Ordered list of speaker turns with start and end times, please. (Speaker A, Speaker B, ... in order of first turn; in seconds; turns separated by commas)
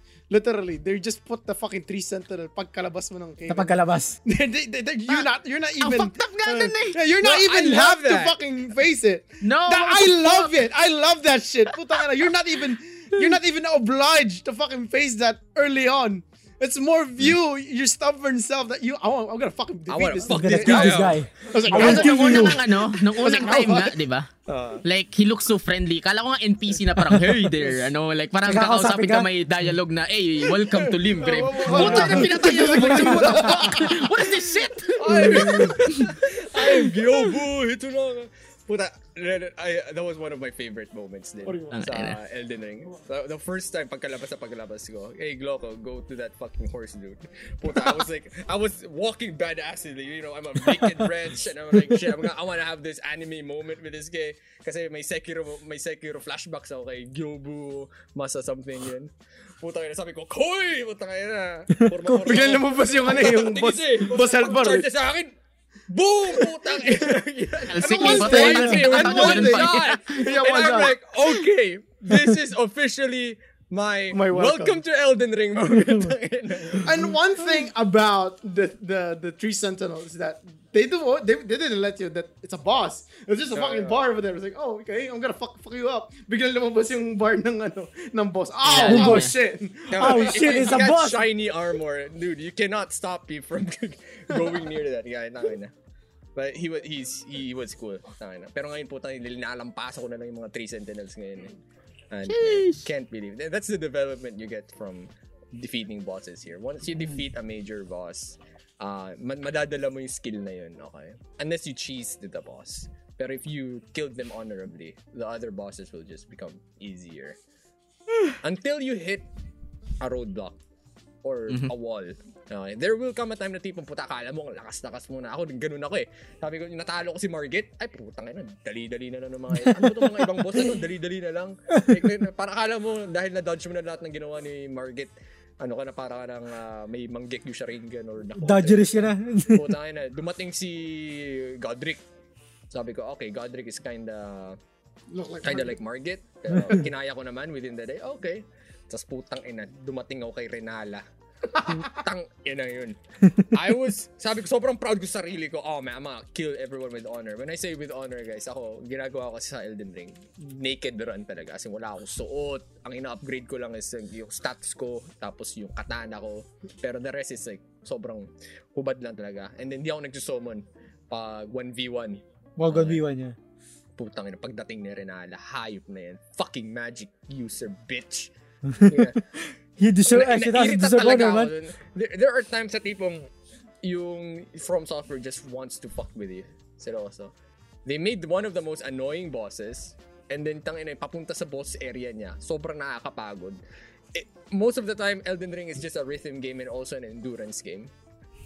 Speaker A: 0.3-24.0, Speaker B: 3.5-4.2, Speaker C: 5.1-7.0, Speaker D: 7.1-8.3, Speaker C: 9.4-10.6, Speaker D: 19.9-22.1, Speaker B: 20.3-22.6, Speaker C: 21.7-24.3, Speaker D: 24.5-24.8, Speaker C: 24.8-35.7, Speaker B: 28.4-29.3, Speaker A: 30.7-34.4, Speaker D: 31.7-32.4, Speaker B: 31.7-32.3, Speaker B: 33.2-33.5, Speaker D: 35.0-65.3, Speaker A: 35.1-35.8, Speaker A: 41.4-41.8, Speaker C: 41.7-42.2, Speaker B: 61.8-62.2, Speaker A: 62.1-64.9, Speaker D: 65.9-76.9, Speaker A: 66.4-66.9, Speaker C: 67.7-70.2, Speaker A: 67.8-71.0, Speaker A: 74.1-74.8, Speaker B: 75.7-76.1, Speaker A: 76.8-90.6, Speaker D: 83.5-84.1, Speaker C: 88.6-89.3, Speaker D: 88.7-89.2, Speaker B: 88.8-89.3, Speaker D: 89.9-95.7, Speaker B: 90.0-91.2, Speaker D: 96.3-101.6, Speaker D: 102.1-117.4, Speaker C: 102.3-102.8, Speaker D: 118.4-119.2, Speaker D: 120.0-120.6, Speaker D: 121.2-142.0, Speaker B: 129.8-130.1, Speaker B: 131.7-132.1, Speaker B: 138.4-139.7, Speaker D: 142.7-144.6, Speaker A: 145.1-145.8, Speaker D: 145.4-173.0, Speaker B: 172.6-173.3, Speaker D: 174.0-178.3, Speaker B: 178.7-179.2, Speaker D: 178.8-179.2, Speaker B: 179.8-181.5, Speaker D: 180.1-187.3, Speaker D: 187.8-193.6, Speaker D: 194.1-197.9